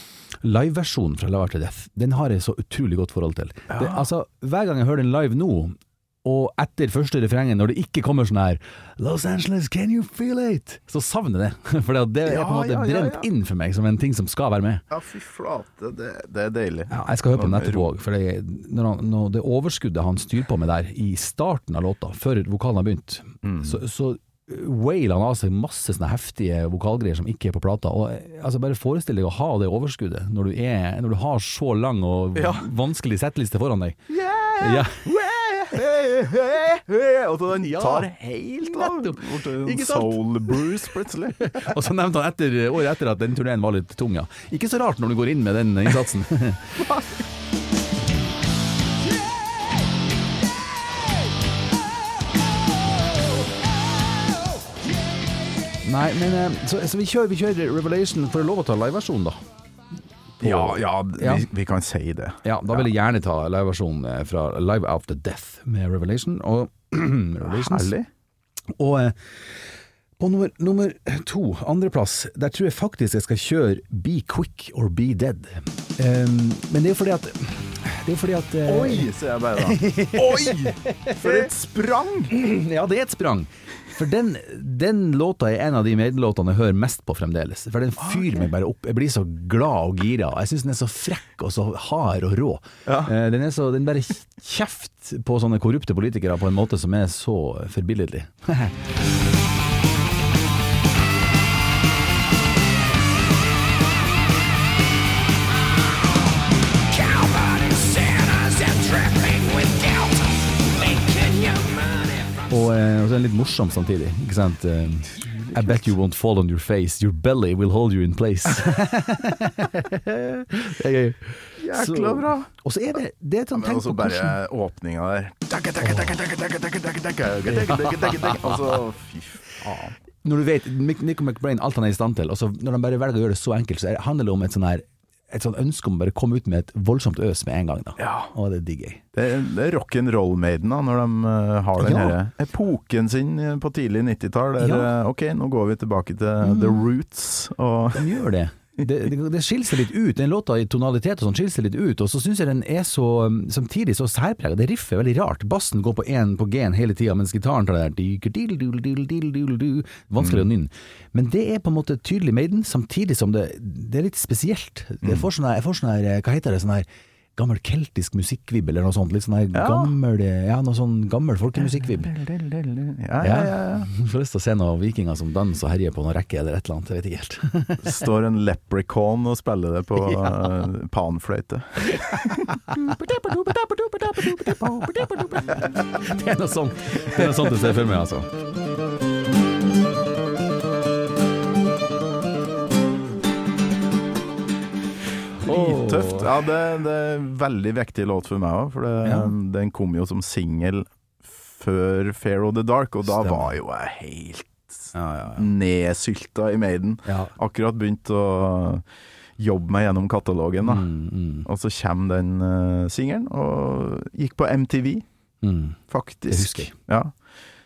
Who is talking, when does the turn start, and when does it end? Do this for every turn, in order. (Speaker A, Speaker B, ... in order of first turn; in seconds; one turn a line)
Speaker A: 0.4-14.8
Speaker B: 3.7-4.0
Speaker B: 12.2-13.3
Speaker B: 14.9-17.9
Speaker A: 16.9-34.0
Speaker B: 23.4-23.8
Speaker B: 32.3-32.7
Speaker B: 34.1-41.5
Speaker A: 34.6-35.0
Speaker A: 37.5-40.6
Speaker A: 41.4-46.7
Speaker A: 55.8-59.4
Speaker A: 60.4-61.5
Speaker B: 60.4-62.9
Speaker A: 62.4-67.9
Speaker B: 67.4-68.1
Speaker A: 68.8-69.1
Speaker A: 70.2-81.5
Speaker B: 78.6-82.3
Speaker A: 82.3-98.7
Speaker B: 88.0-88.5
Speaker B: 92.8-93.1
Speaker A: 112.5-124.4
Speaker B: 115.3-115.9
Speaker B: 121.6-122.5
Speaker B: 123.5-129.9
Speaker A: 125.8-126.2
Speaker A: 127.6-128.3
Speaker A: 130.2-139.0
Speaker B: 138.0-138.3
Speaker B: 139.1-148.2
Speaker A: 141.8-142.2
Speaker A: 144.6-144.9
Speaker A: 146.4-146.8
Speaker A: 147.9-172.2
Speaker B: 165.0-165.3
Speaker B: 169.5-169.9
Speaker B: 171.8-173.9
Speaker A: 173.2-177.9
Speaker B: 177.8-182.6
Speaker A: 180.0-180.7
Speaker A: 181.9-188.3
Speaker B: 184.5-185.2
Speaker A: 195.4-196.3
Speaker B: 195.4-208.8
Speaker A: 199.0-199.3
Speaker A: 203.1-203.5
Speaker A: 204.9-205.5
Speaker A: 207.1-207.3
Speaker B: 209.4-210.9
Speaker A: 210.6-211.5
Speaker B: 211.4-215.0
Speaker A: 215.4-216.7
Speaker B: 215.9-217.1